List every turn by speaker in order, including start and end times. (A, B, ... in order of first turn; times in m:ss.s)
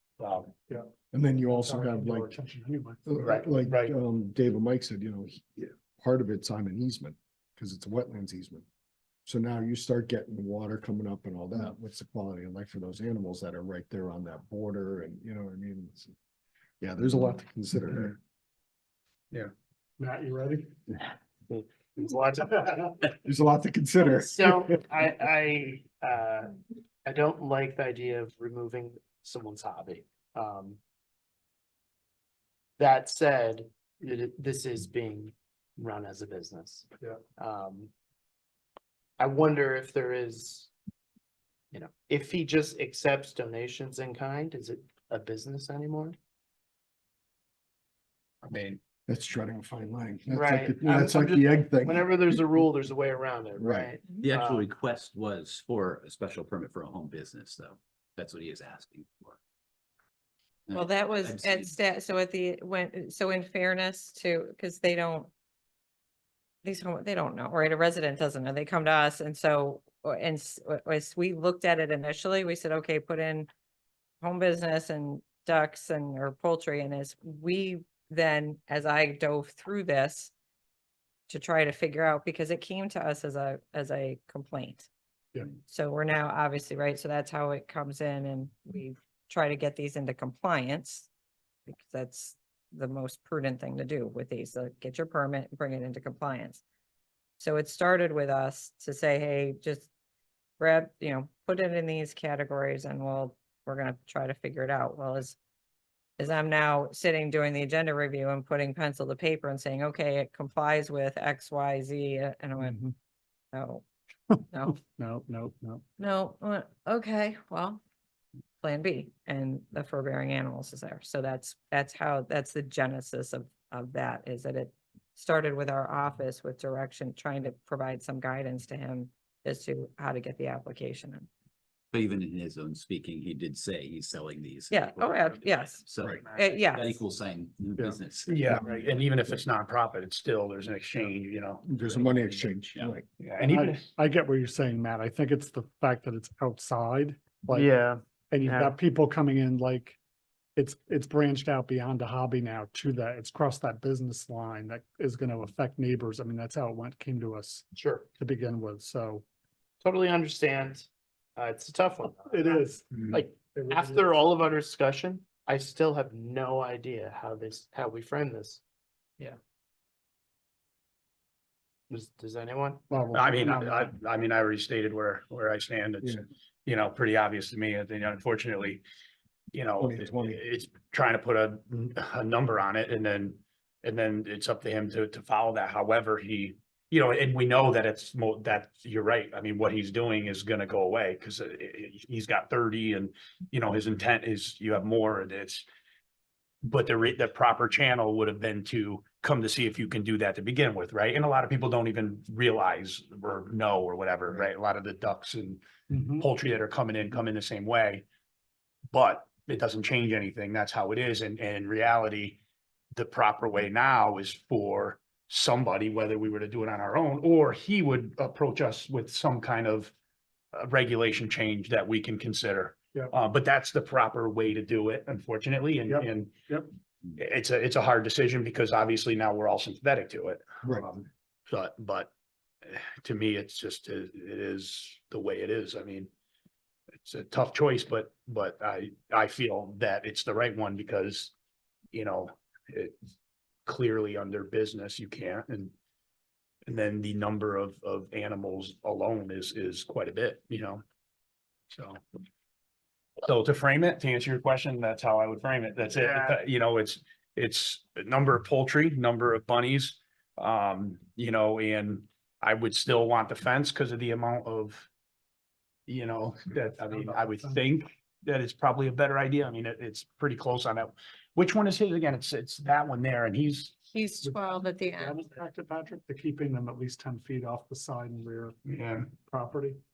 0:00.2-0:00.5 A
0:01.1-0:02.3 B
0:01.4-0:03.2 C
0:03.1-0:08.6 B
0:03.2-0:03.9 A
0:09.3-0:16.1 B
0:16.8-0:18.2 B
0:20.0-0:20.8 C
0:21.5-0:23.0 D
0:23.2-0:24.7 B
0:24.0-0:30.8 D
0:32.8-0:37.9 D
0:39.2-0:40.7 D
0:41.7-0:46.2 D
0:48.4-0:48.8 A
0:49.1-0:52.6 B
0:50.3-0:54.7 D
0:53.6-0:53.9 B
0:54.2-0:59.4 E
1:00.7-1:01.7 E
1:00.7-1:05.3 F
1:06.6-1:13.5 F
1:14.2-1:20.3 F
1:21.3-1:24.9 F
1:25.7-1:31.1 F
1:31.7-1:36.6 F
1:37.4-1:39.9 F
1:40.6-1:45.4 F
1:46.2-1:52.9 F
1:52.6-1:52.9 C
1:53.5-1:53.8 F
1:54.3-1:55.8 C
1:56.0-1:57.8 F
1:58.6-2:11.3 F
2:11.9-2:19.1 E
2:14.7-2:17.0 F
2:18.3-2:21.6 A
2:21.6-2:23.1 B
2:21.7-2:22.9 E
2:23.2-2:23.9 A
2:23.4-2:27.8 C
2:27.5-2:28.7 D
2:28.3-2:30.0 C
2:30.6-2:39.2 C
2:37.8-2:38.1 D
2:39.8-2:48.6 D
2:42.3-2:44.2 C
2:51.9-2:52.8 D
2:52.9-2:53.9 C
2:53.1-2:58.8 A
2:59.5-3:15.7 A
2:59.8-3:00.4 B
3:16.6-3:25.6 A
3:25.9-3:26.3 C
3:26.2-3:28.0 A
3:28.9-3:32.4 A
3:33.0-3:39.9 A
3:40.5-3:46.4 A
3:45.9-3:46.7 C
3:47.2-3:52.1 A
3:52.6-3:56.1 A
3:57.0-4:01.3 A
4:01.9-4:03.0 A
4:03.7-4:05.7 A
4:06.7-4:10.8 A
4:11.7-4:12.0 A
4:13.2-4:24.9 A
4:16.0-4:16.4 D
4:25.9-4:33.8 A
4:26.9-4:27.6 C
4:33.9-4:35.2 F
4:34.2-4:38.6 C
4:38.6-4:39.1 A
4:39.1-4:39.8 C